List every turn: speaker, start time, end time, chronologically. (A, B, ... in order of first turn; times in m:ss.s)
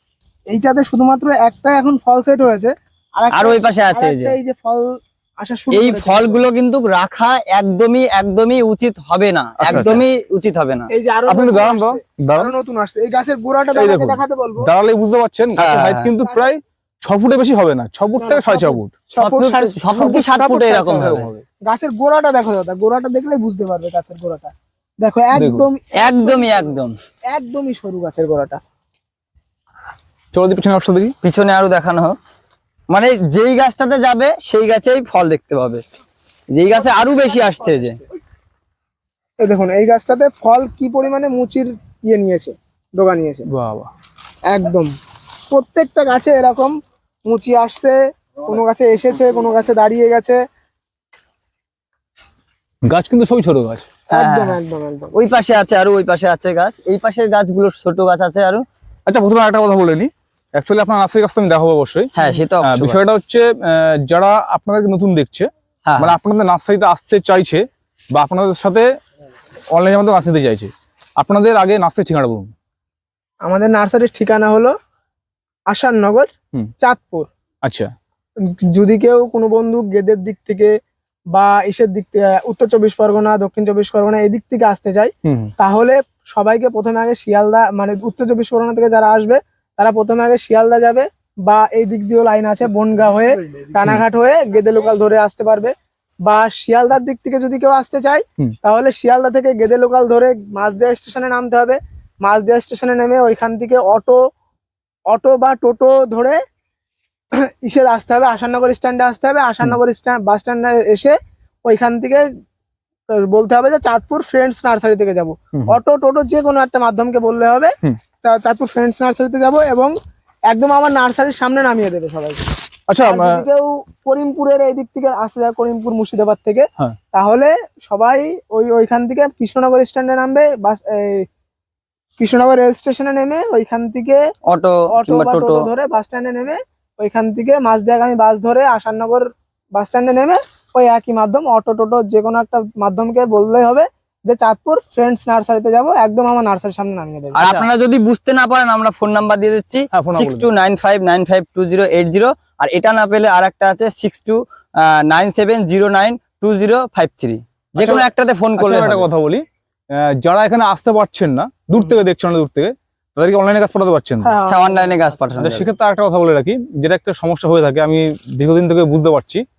0:00.5-0:06.4 A
0:03.3-0:04.4 B
0:05.7-0:10.9 B
0:09.6-0:10.0 C
0:10.9-0:14.7 A
0:11.3-0:12.5 C
0:13.7-0:18.9 C
0:15.6-0:16.1 B
0:16.2-0:16.5 A
0:18.2-0:21.1 A
0:19.2-0:21.3 B
0:20.0-0:20.3 C
0:20.8-0:21.4 C
0:21.6-0:26.8 A
0:25.3-0:25.7 C
0:26.0-0:27.0 B
0:27.3-0:28.6 A
0:30.3-0:31.1 C
0:31.2-0:32.2 B
0:32.9-0:35.8 B
0:36.5-0:38.0 B
0:36.7-0:38.0 A
0:39.4-0:43.4 A
0:43.5-0:43.9 C
0:44.5-0:44.9 A
0:45.5-0:46.7 A
0:47.3-0:50.4 A
0:52.8-0:53.9 C
0:54.1-0:54.6 B
0:54.1-0:55.1 A
0:55.1-0:58.6 B
0:59.0-1:02.1 C
1:02.1-1:03.0 B
1:02.6-1:08.9 C
1:05.8-1:06.2 B
1:09.7-1:12.5 C
1:13.4-1:14.7 A
1:15.7-1:17.3 A
1:17.6-1:17.9 C
1:18.7-1:20.7 A
1:21.3-1:35.7 A
1:25.2-1:25.5 C
1:36.3-1:44.2 A
1:45.1-1:46.4 A
1:47.4-1:52.2 A
1:53.1-1:59.9 A
2:00.5-2:02.5 A
2:02.9-2:03.4 C
2:03.0-2:11.2 A
2:12.2-2:14.2 A
2:14.5-2:15.7 B
2:14.9-2:27.4 A
2:27.3-2:39.1 B
2:27.4-2:27.7 C
2:29.9-2:30.5 C
2:37.8-2:44.3 C
2:44.2-2:45.0 A
2:44.5-2:45.7 B
2:45.4-2:49.4 C